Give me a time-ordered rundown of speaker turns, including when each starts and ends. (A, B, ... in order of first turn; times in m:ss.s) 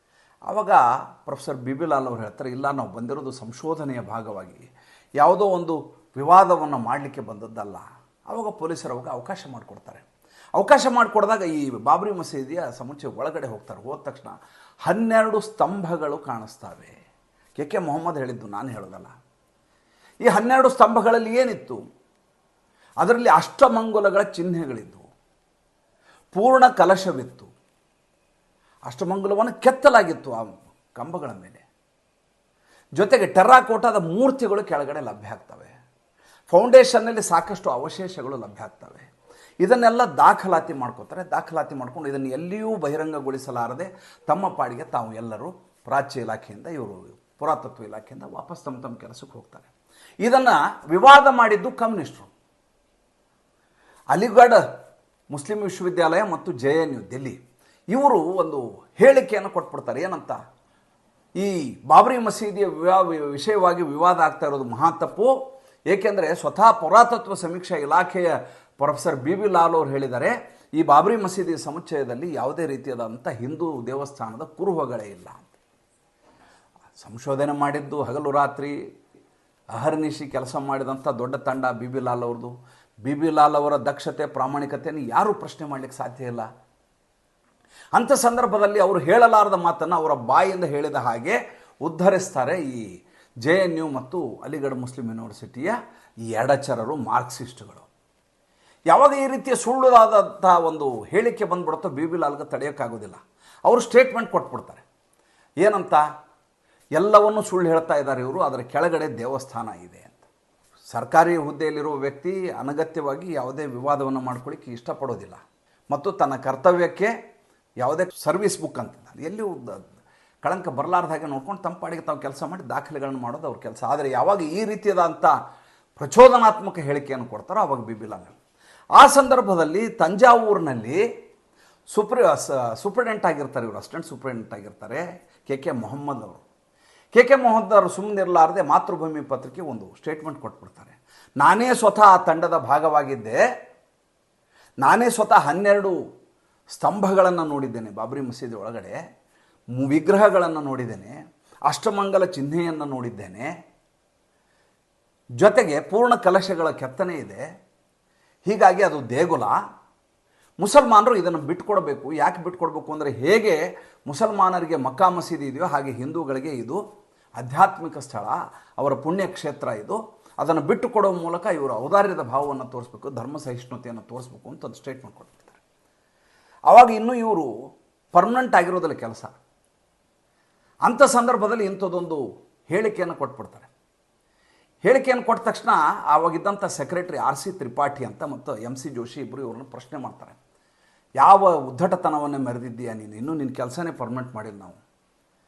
0:00.5-0:04.7 A
0:05.2-0:10.0 A
0:10.6-0:14.4 A
0:14.9-0:17.0 A
0:17.6-0:19.1 A
0:20.2-0:21.8 A
0:23.0-0:25.1 A
0:26.3-0:27.5 A
0:28.9-0:31.6 A
0:33.0-0:35.7 A
0:36.5-0:39.1 A
0:39.6-0:49.7 A
0:50.2-0:52.3 A
0:54.1-0:54.6 A
0:55.3-0:57.4 A
0:57.9-1:00.4 A
1:01.4-1:05.3 A
1:05.9-1:15.5 A
1:17.0-1:18.8 A
1:19.7-1:26.5 A
1:28.0-1:32.9 A
1:33.4-1:35.8 A
1:36.3-1:37.9 A
1:38.9-1:44.8 A
1:45.6-1:46.0 A
1:47.0-1:50.3 A
1:50.9-1:57.1 A
1:57.8-2:05.3 A
2:06.0-2:08.4 A
2:09.0-2:11.0 A
2:11.9-2:16.4 A
2:17.1-2:23.4 A
2:24.8-2:26.0 A
2:26.7-2:29.0 A
2:29.8-2:31.2 A
2:31.7-2:33.5 A
2:35.4-2:37.4 A
2:38.5-2:39.6 A
2:40.6-2:46.8 A
2:47.4-2:55.6 A
2:56.7-2:57.5 A
2:58.1-2:59.3 A
3:00.9-3:03.7 A
3:04.8-3:10.4 A
3:11.2-3:14.8 A